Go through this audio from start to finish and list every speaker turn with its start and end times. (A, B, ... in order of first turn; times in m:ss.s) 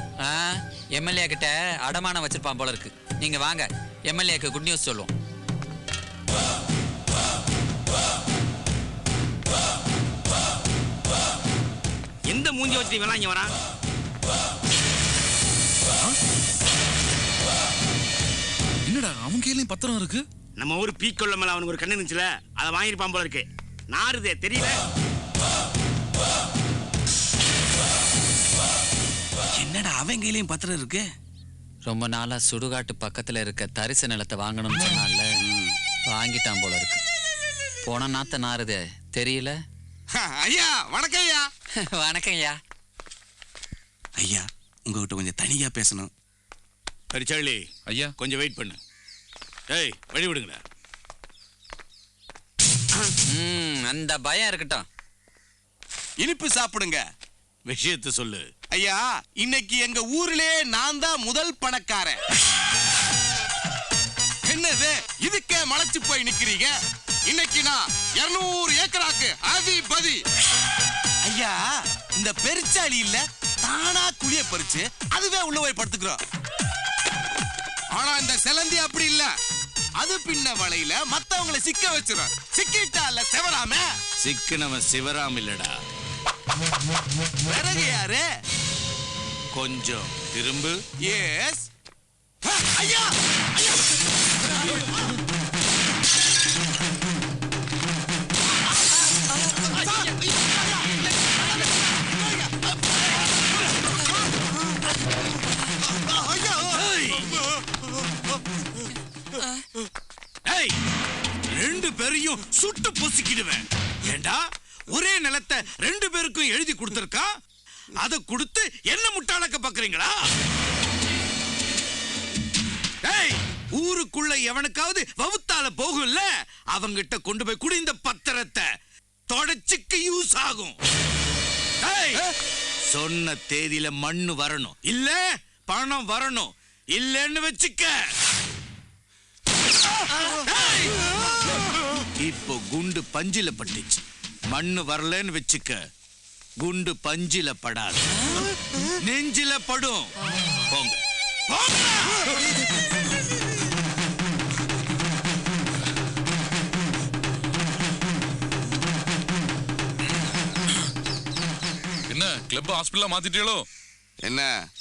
0:00.2-0:05.1 A
0:12.3-0:13.5 B
0:18.9-0:20.2 C
0:20.6-0:24.8 B
0:29.6-0:31.0 D
0:31.8-0:35.4 A
0:36.1-0:37.0 A
0:37.8-0:39.6 A
0:41.0-0:41.4 D
0:41.8-0:42.6 A
0:44.9-0:46.1 D
0:47.1-0:47.7 E
0:47.9-0:48.1 C
0:48.2-0:48.8 E
0:49.7-0:50.6 E
0:53.3-0:54.8 A
0:56.2-0:57.0 D
0:57.7-0:58.5 E
0:58.7-1:02.1 D
1:04.5-1:06.7 D
1:07.3-1:10.2 D
1:12.2-1:16.2 D
1:18.0-1:19.3 D
1:20.0-1:23.8 D
1:24.2-1:25.8 E
1:27.5-1:28.2 D
1:29.5-1:30.8 E
1:31.0-1:31.6 D
1:46.6-1:47.4 E
1:50.5-1:50.8 E
1:51.5-1:57.3 E
1:58.0-2:00.3 E
2:03.0-2:08.7 E
2:09.3-2:10.8 E
2:11.8-2:12.3 E
2:12.9-2:18.1 E
2:20.2-2:20.9 E
2:22.2-2:25.8 E
2:26.6-2:28.1 E
2:29.0-2:30.1 E
2:30.7-2:32.3 E
2:42.1-2:43.6 C
2:44.2-2:44.5 D